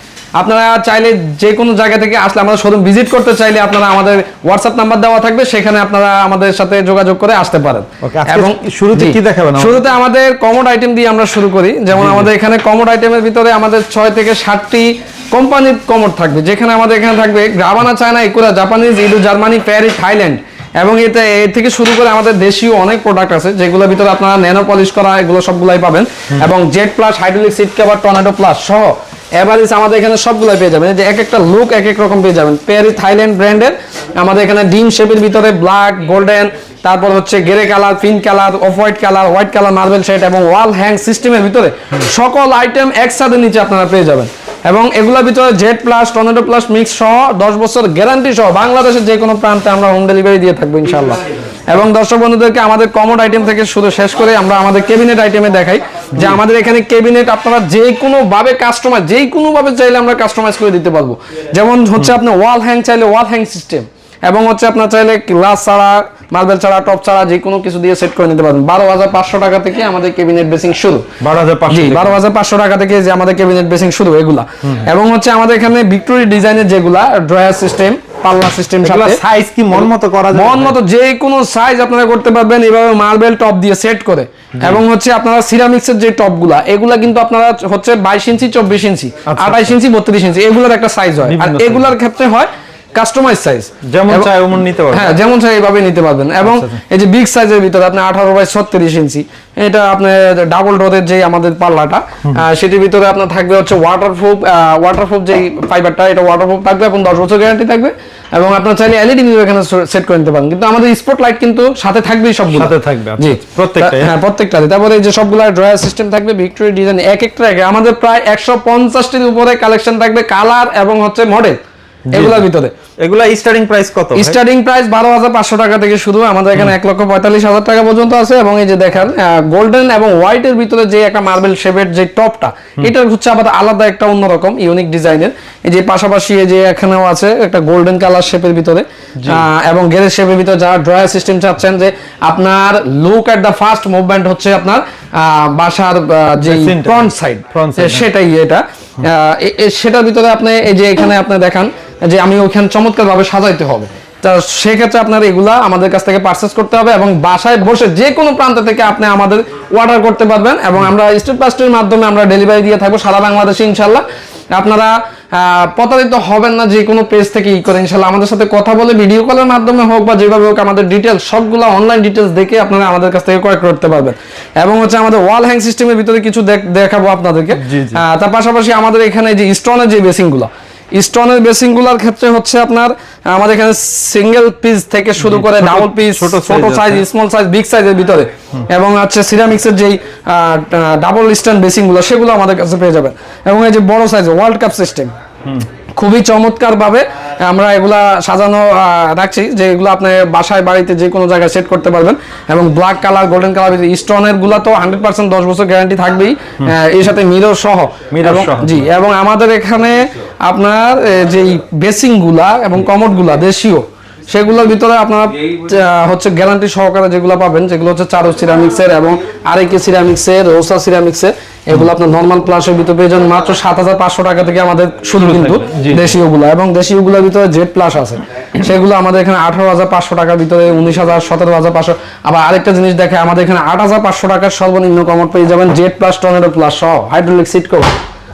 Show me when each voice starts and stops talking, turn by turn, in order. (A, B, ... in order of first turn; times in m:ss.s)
0:00.4-1:11.1 A
0:08.0-0:09.8 B
0:11.9-0:12.3 B
1:11.2-1:12.2 B
1:11.7-1:19.2 A
1:18.8-1:20.8 B
1:20.3-1:34.3 A
1:29.3-1:29.7 B
1:31.2-1:31.9 B
1:33.8-1:35.1 B
1:34.9-2:01.6 A
1:36.4-1:36.8 B
1:52.5-1:54.1 B
2:02.1-2:02.4 B
2:02.1-2:02.7 A
2:03.0-2:04.4 B
2:04.1-3:15.1 A
2:19.2-2:19.4 B
2:26.4-2:28.0 B
2:57.6-2:58.0 B
3:05.2-3:07.0 B
3:16.0-3:58.0 A
3:28.1-3:28.8 B
3:45.2-3:46.1 B